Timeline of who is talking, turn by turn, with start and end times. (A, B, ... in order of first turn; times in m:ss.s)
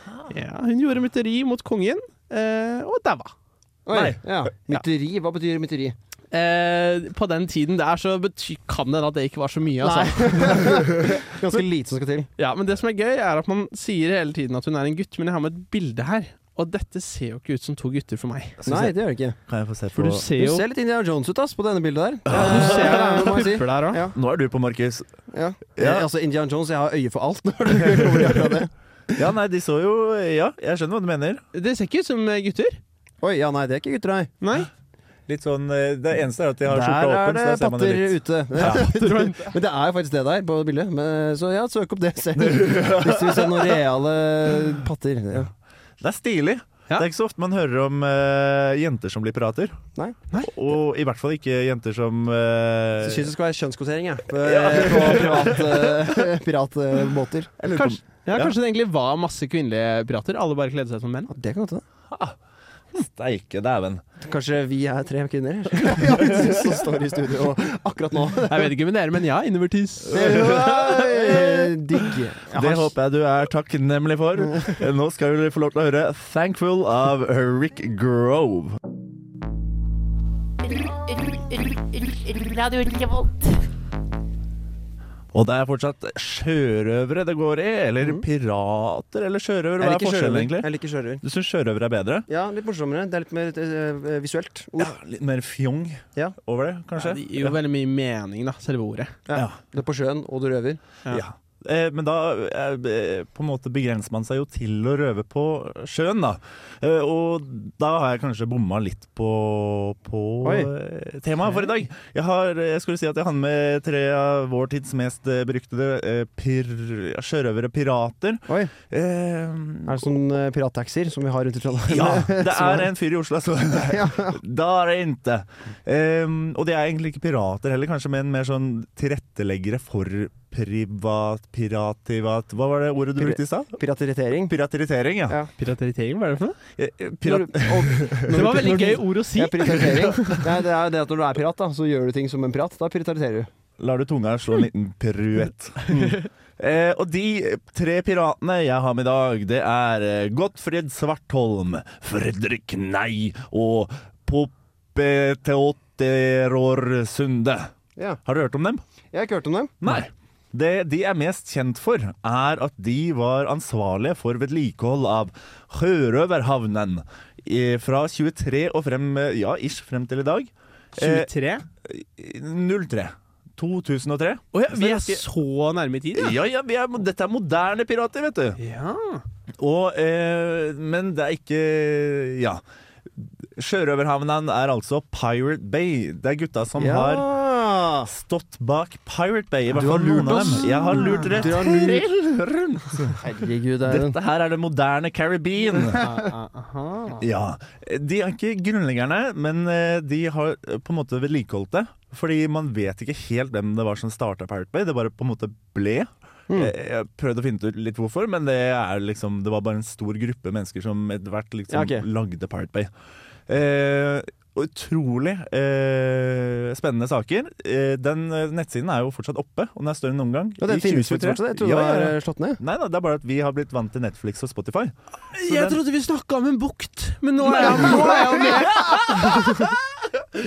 0:00.3-0:03.3 A
0:03.9-0:06.0 B
0:03.9-0:04.2 C
0:06.3-0:11.1 A
0:09.8-0:12.3 B
0:12.4-0:18.6 A
0:18.6-0:19.4 B
0:18.7-0:18.9 C
0:19.5-0:20.3 C
0:19.9-0:20.7 A
0:20.4-0:24.2 B
0:22.3-0:23.5 C
0:22.3-0:24.1 A
0:24.1-0:25.1 C
0:25.3-0:28.7 B
0:25.8-0:26.1 C
0:27.8-0:28.3 C
0:29.2-0:31.4 C
0:31.5-0:32.8 A
0:33.2-0:34.3 B
0:34.4-0:34.7 A
0:35.3-0:38.8 C
0:36.7-0:45.5 B
0:38.6-0:39.5 A
0:42.4-0:43.8 C
0:46.0-0:49.8 C
0:50.4-0:53.3 C
0:53.0-0:58.0 B
0:54.4-0:56.0 C
0:57.7-0:58.6 C
0:57.7-1:01.3 A
1:01.3-1:01.8 B
1:02.1-1:02.4 C
1:02.9-1:04.0 C
1:04.2-1:08.7 B
1:06.2-1:06.6 C
1:08.5-1:10.7 A
1:10.1-1:11.7 C
1:10.1-1:12.9 B
1:12.5-1:18.8 C
1:20.8-1:23.5 D
1:25.3-1:32.3 C
1:29.8-1:31.2 B
1:32.3-1:35.0 B
1:34.8-1:37.6 C
1:37.0-1:39.2 A
1:39.3-1:41.0 B
1:39.3-1:39.6 C
1:41.1-2:00.1 C
1:50.4-1:50.7 B
1:59.9-2:02.9 B
2:01.9-2:13.8 C
2:03.9-2:04.4 B
2:13.2-2:14.6 B
2:14.5-2:15.4 C
2:15.6-2:16.6 A
2:16.8-2:18.7 C
2:17.2-2:23.5 B
2:18.2-2:20.4 A
2:23.8-2:25.9 C
2:25.9-2:26.3 A
2:25.9-2:26.2 B
2:26.6-2:37.7 C
2:38.2-2:38.8 C
2:39.1-2:39.8 B
2:39.8-2:51.3 C
2:51.0-2:51.7 A
2:51.8-2:55.2 C
2:54.5-2:56.4 A
2:56.1-2:58.6 C
2:58.6-2:59.2 A
2:59.6-3:02.6 C
3:03.2-3:07.3 C
3:06.8-3:08.1 B
3:08.1-3:13.2 C
3:09.7-3:12.1 B
3:10.3-3:11.5 A
3:13.2-3:14.2 B
3:13.8-3:16.1 C
3:16.0-3:17.2 A
3:17.2-3:32.9 C
3:31.7-3:32.0 B
3:33.5-3:45.8 C
3:40.6-3:42.6 B
3:45.3-3:49.7 A
3:48.5-3:49.6 C